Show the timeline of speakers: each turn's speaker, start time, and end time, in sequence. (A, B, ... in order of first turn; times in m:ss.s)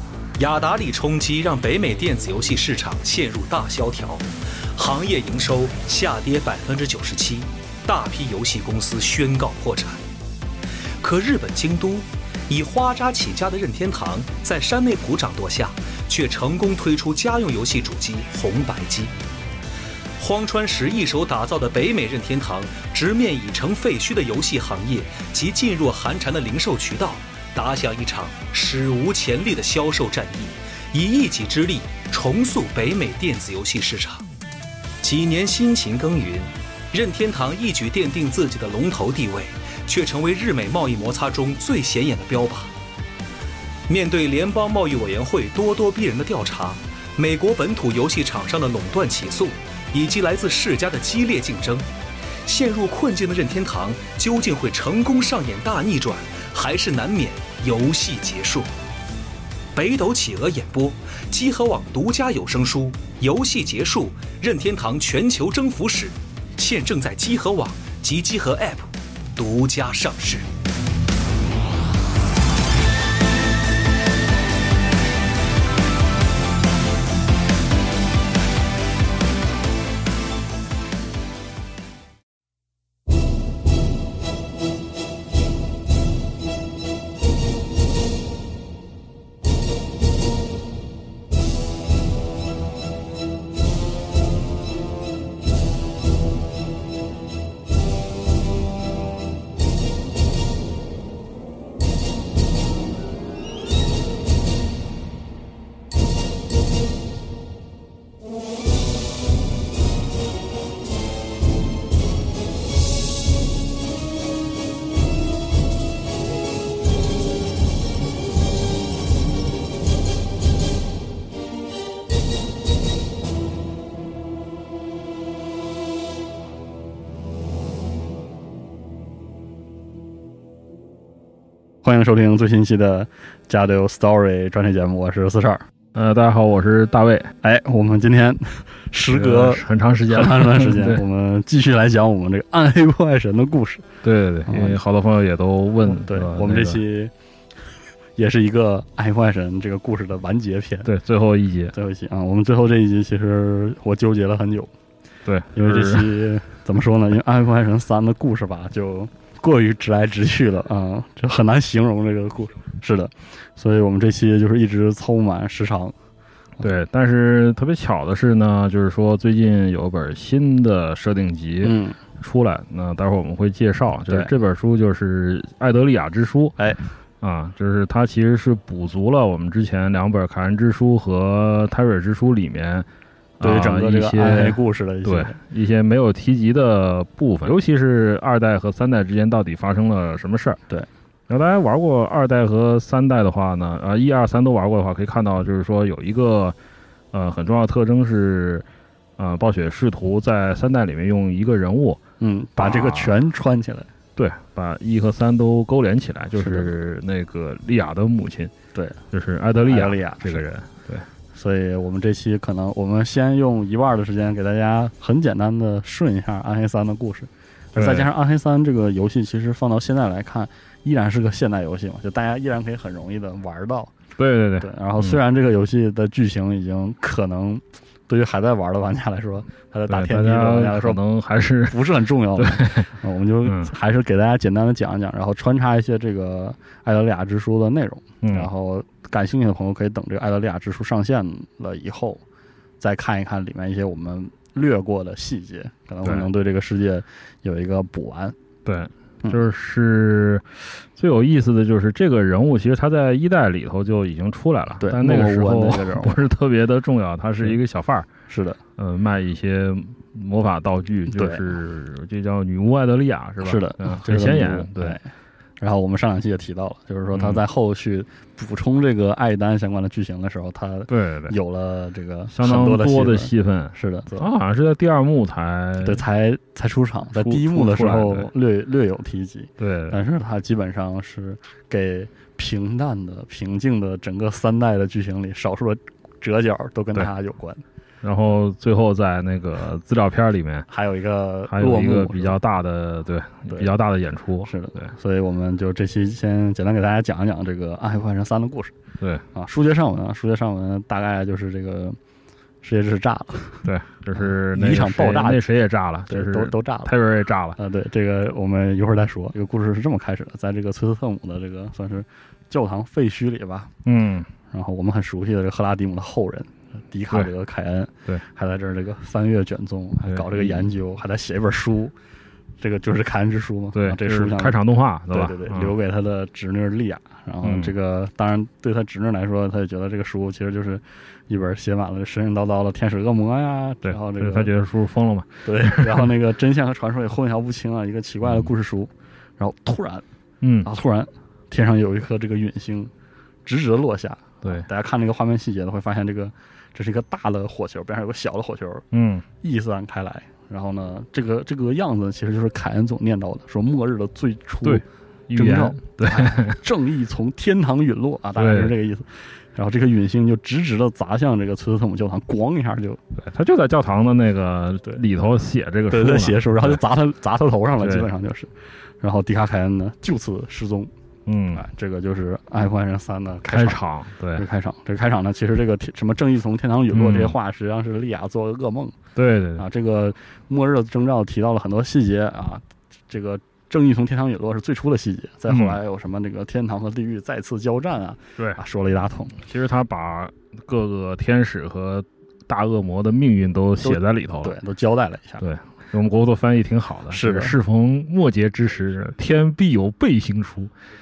0:00.4-0:10.0 A
0:11.0-0:19.1 A
0:20.2-0:34.2 A
0:35.0-0:42.7 A
0:43.9-0:51.9 A
0:52.4-0:58.7 A
0:59.7-1:10.5 A
2:11.8-2:15.6 B
2:15.9-2:17.3 C
2:17.4-2:23.9 B
2:19.1-2:21.0 C
2:24.0-2:26.8 C
2:24.4-2:24.8 B
2:25.8-2:27.1 B
2:28.2-2:30.9 B
2:30.8-2:31.7 C
2:31.7-2:34.7 B
2:35.2-2:36.2 C
2:35.5-2:45.9 B
2:46.6-2:56.6 C
2:51.6-2:52.0 B
2:56.6-2:56.9 B
2:57.2-3:02.9 C
3:03.4-3:10.6 C
3:03.4-3:05.4 B
3:11.3-3:16.6 C
3:17.1-3:18.6 C
3:19.2-3:22.0 C
3:22.2-3:23.9 B
3:22.6-3:23.1 C
3:24.2-3:28.5 C
3:26.4-3:26.7 B
3:28.7-3:29.0 B
3:29.1-3:31.0 C
3:29.6-3:30.5 B
3:31.3-3:43.9 B
3:37.7-3:38.1 C
3:44.2-3:45.2 C
3:44.6-3:51.0 B
3:49.9-3:52.9 C
3:51.7-4:02.2 B
3:53.4-3:53.7 C
3:58.2-3:58.5 C
4:02.8-4:08.3 B
4:08.6-4:18.1 C
4:14.8-4:16.2 B
4:18.3-4:18.6 B
4:18.8-4:25.0 C
4:21.1-4:21.4 B
4:23.4-4:25.0 B
4:25.6-4:34.3 B
4:27.1-4:27.4 C
4:30.9-4:31.3 C
4:32.3-4:36.0 C
4:35.8-4:47.6 B
4:37.1-4:38.3 C
4:39.6-4:40.0 C
4:48.0-4:50.7 C
4:50.7-4:52.4 B
4:51.5-4:54.9 C
4:54.4-4:58.7 B
4:59.3-5:02.0 B
5:02.6-5:06.9 B
5:03.6-5:07.6 C
5:07.6-5:13.7 B
5:13.8-5:14.3 C
5:14.5-5:21.9 B
5:20.1-5:20.7 C
5:22.6-5:24.6 B
5:23.7-5:25.7 C
5:25.1-5:34.5 B
5:27.4-5:27.7 C
5:33.8-5:36.1 C
5:35.4-5:40.0 B
5:40.4-5:40.7 C
5:40.6-5:42.9 B
5:43.4-5:48.8 B
5:48.9-5:49.2 C
5:49.4-6:03.0 B
5:54.6-5:56.6 C
5:58.4-5:58.7 C
6:03.2-6:06.8 C
6:05.9-6:10.9 B
6:07.8-6:08.1 C
6:11.2-6:11.6 C
6:11.5-6:13.8 B
6:13.4-6:14.4 C
6:14.3-6:19.0 B
6:16.9-6:17.3 C
6:19.1-6:19.6 C
6:19.6-6:29.4 B
6:25.5-6:25.8 C
6:29.4-6:34.6 C
6:33.8-6:35.4 B
6:35.4-6:40.7 C
6:37.1-6:37.6 B